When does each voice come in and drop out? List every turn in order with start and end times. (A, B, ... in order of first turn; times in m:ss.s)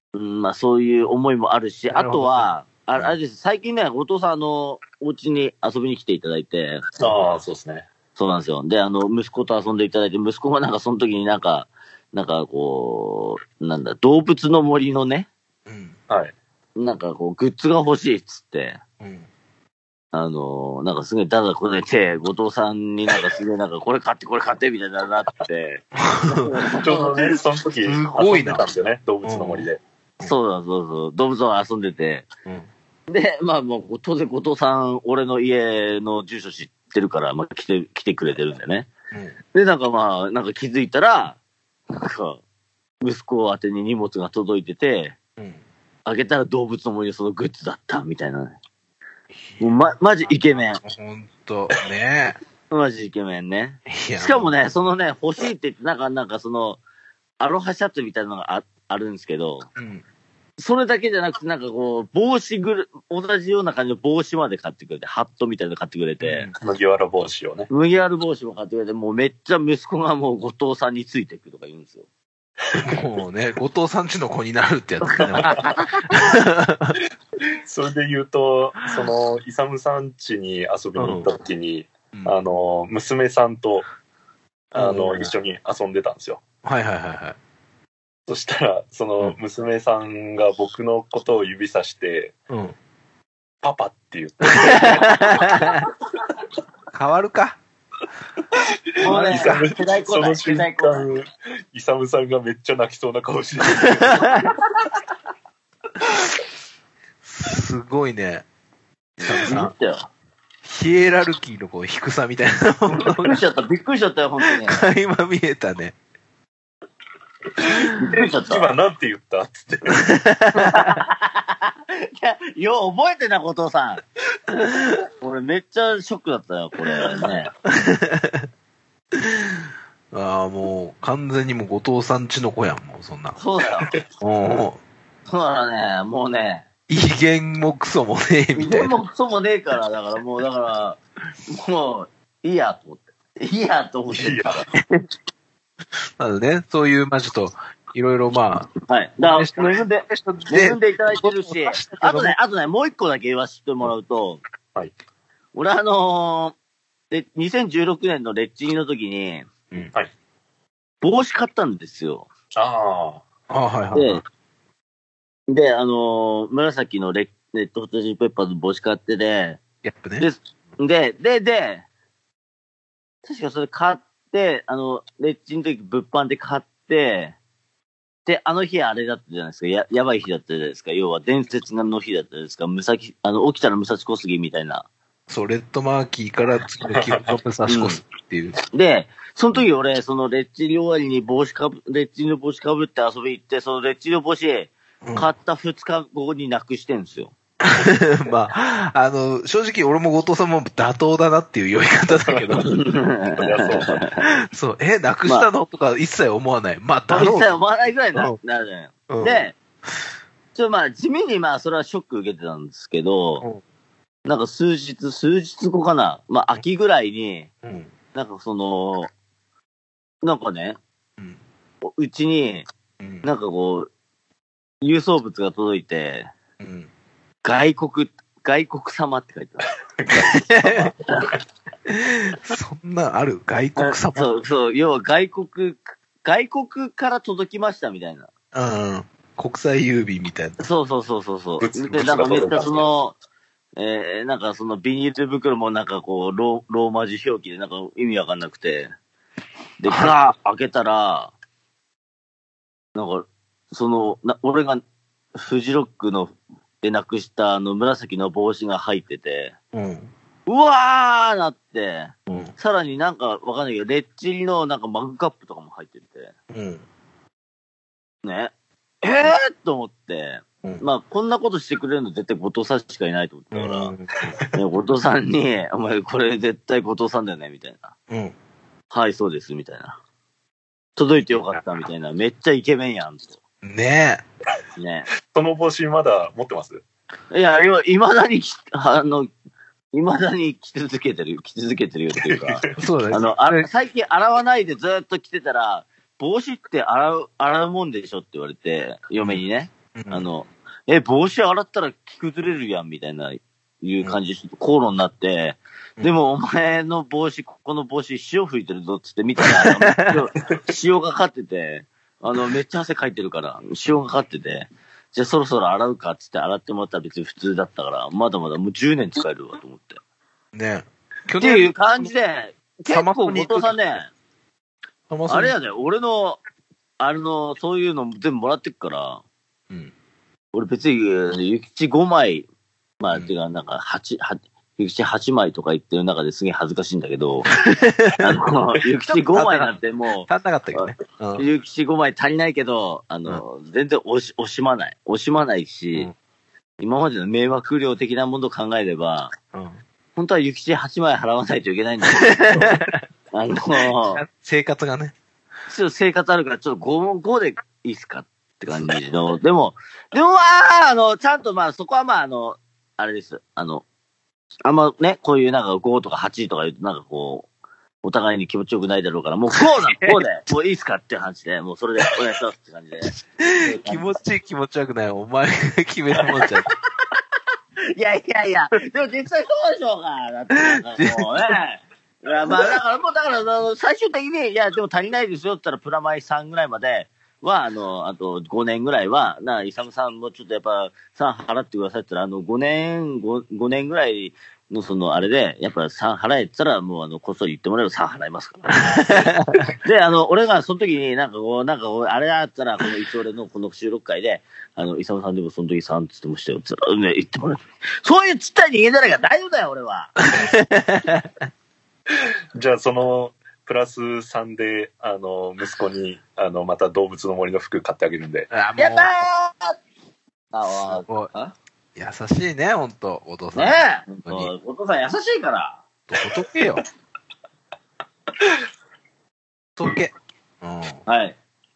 0:00.1-0:06.9 A
0:01.9-0:03.1 B
0:07.0-0:07.9 C
0:08.2-0:15.3 A
0:15.6-0:16.0 B
0:16.1-0:16.3 C
0:16.8-0:18.8 A
0:19.0-0:19.3 B
0:20.1-0:27.3 A
0:26.0-0:26.5 B
0:26.8-0:29.8 C
0:27.9-0:28.6 B
0:29.2-0:29.7 B
0:30.2-0:32.3 A
0:33.1-0:38.9 A
0:39.5-0:41.4 A
0:41.9-0:42.4 A
0:43.0-0:45.2 A
0:46.0-0:48.6 A
0:49.6-0:50.8 A
0:50.3-0:52.4 B
0:52.7-0:56.8 A
0:53.9-0:54.6 B
0:57.4-0:59.7 A
0:59.8-1:00.0 B
1:00.6-1:06.5 A
1:06.2-1:06.5 B
1:06.6-1:07.7 C
1:07.7-1:12.1 A
1:12.8-1:17.0 B
1:15.3-1:15.7 C
1:15.4-1:15.9 A
1:17.6-1:23.9 C
1:21.0-1:21.3 B
1:24.7-1:26.4 C
1:24.8-1:25.3 B
1:26.6-1:27.4 B
1:28.3-1:32.4 C
1:32.5-1:32.8 B
1:33.6-1:35.7 C
1:34.6-1:35.9 B
1:36.9-1:37.6 B
1:39.0-1:44.5 C
1:39.0-1:41.1 A
1:39.0-1:39.6 B
1:43.7-1:44.4 B
1:47.2-1:48.4 B
1:49.2-1:50.1 A
1:49.3-1:49.7 B
1:50.6-1:53.4 B
1:53.0-1:54.9 A
1:54.5-1:55.9 B
1:57.6-2:00.1 C
1:57.8-1:58.7 A
1:59.9-2:01.0 B
2:00.5-2:04.0 A
2:05.2-2:07.5 A
2:07.6-2:08.5 B
2:09.1-2:13.4 B
2:13.4-2:13.9 A
2:14.2-2:14.8 B
2:15.3-2:16.6 A
2:16.9-2:18.9 B
2:18.6-2:24.6 A
2:24.1-2:24.6 C
2:26.2-2:28.7 B
2:28.9-2:34.4 A
2:29.2-2:32.4 B
2:35.6-2:36.6 A
2:37.1-2:39.5 A
2:41.0-2:42.3 A
2:42.6-2:43.2 C
2:43.5-2:44.2 B
2:43.9-2:44.2 A
2:45.5-2:49.6 A
2:49.8-2:50.3 B
2:50.2-2:51.8 A
2:53.2-2:57.4 A
2:58.3-3:04.9 A
3:05.3-3:08.6 B
3:06.9-3:07.3 C
3:07.7-3:08.0 A
3:08.7-3:17.4 A
3:15.0-3:15.3 B
3:17.6-3:22.7 B
3:22.1-3:22.8 C
3:22.7-3:24.3 A
3:23.3-3:24.0 C
3:24.2-3:27.6 B
3:27.1-3:29.6 A
3:29.1-3:30.0 B
3:30.6-3:33.4 A
3:34.2-3:37.5 A
3:37.6-3:37.9 B
3:38.1-3:39.1 A
3:40.2-3:40.8 A
3:41.8-3:42.6 A
3:43.0-3:43.3 B
3:43.2-3:43.9 A
3:44.8-3:46.3 A
3:46.6-3:46.9 B
3:47.4-3:49.7 A
3:50.1-3:50.9 B
3:51.9-3:54.3 B
3:53.8-3:58.3 A
3:58.5-4:00.6 B
4:00.6-4:03.2 A
4:01.6-4:02.8 C
4:03.8-4:08.9 A
4:09.8-4:11.3 A
4:09.9-4:10.1 B
4:12.9-4:14.8 A
4:15.4-4:19.6 A
4:19.7-4:20.1 B
4:20.5-4:26.3 A
4:22.3-4:22.5 B
4:26.5-4:26.8 B
4:28.2-4:33.9 A
4:33.5-4:34.4 B
4:34.5-4:37.9 A
4:38.1-4:38.4 B
4:38.9-4:40.0 A
4:41.0-4:43.4 A
4:43.6-4:44.2 B
4:44.8-4:45.1 A
4:45.3-4:46.8 C
4:47.3-4:49.3 A
4:49.9-5:20.0 A
4:52.8-4:53.7 B
4:59.9-5:00.3 B
5:09.4-5:10.2 B
5:20.5-5:21.7 B
5:21.4-5:24.1 A
5:22.9-5:23.8 B
5:25.1-5:25.6 B
5:25.3-5:26.4 A
5:27.0-5:29.2 A
5:30.5-5:32.4 A
5:33.0-5:37.5 A
5:37.6-5:38.4 B
5:38.1-5:46.1 A
5:39.0-5:41.4 B
5:46.8-5:49.3 A
5:49.5-5:49.8 B
5:50.1-5:52.8 A
5:52.4-5:53.0 B
5:53.3-5:54.2 A
5:53.8-5:55.1 B
5:55.7-6:03.8 A
5:58.7-5:59.0 B
6:04.6-6:07.5 A
6:08.0-6:14.2 A
6:09.9-6:10.2 B
6:13.1-6:16.7 B
6:17.9-6:50.1 A
6:21.0-6:21.3 B
6:39.3-6:39.7 B
6:50.3-6:51.4 B
6:52.5-6:58.5 C
6:58.5-6:59.2 B
6:58.8-6:59.8 A
7:00.5-7:01.5 A
7:00.6-7:01.3 B
7:02.0-7:04.5 B
7:03.5-7:05.8 A
7:06.1-7:06.8 B
7:09.8-7:11.0 B
7:11.1-7:11.4 A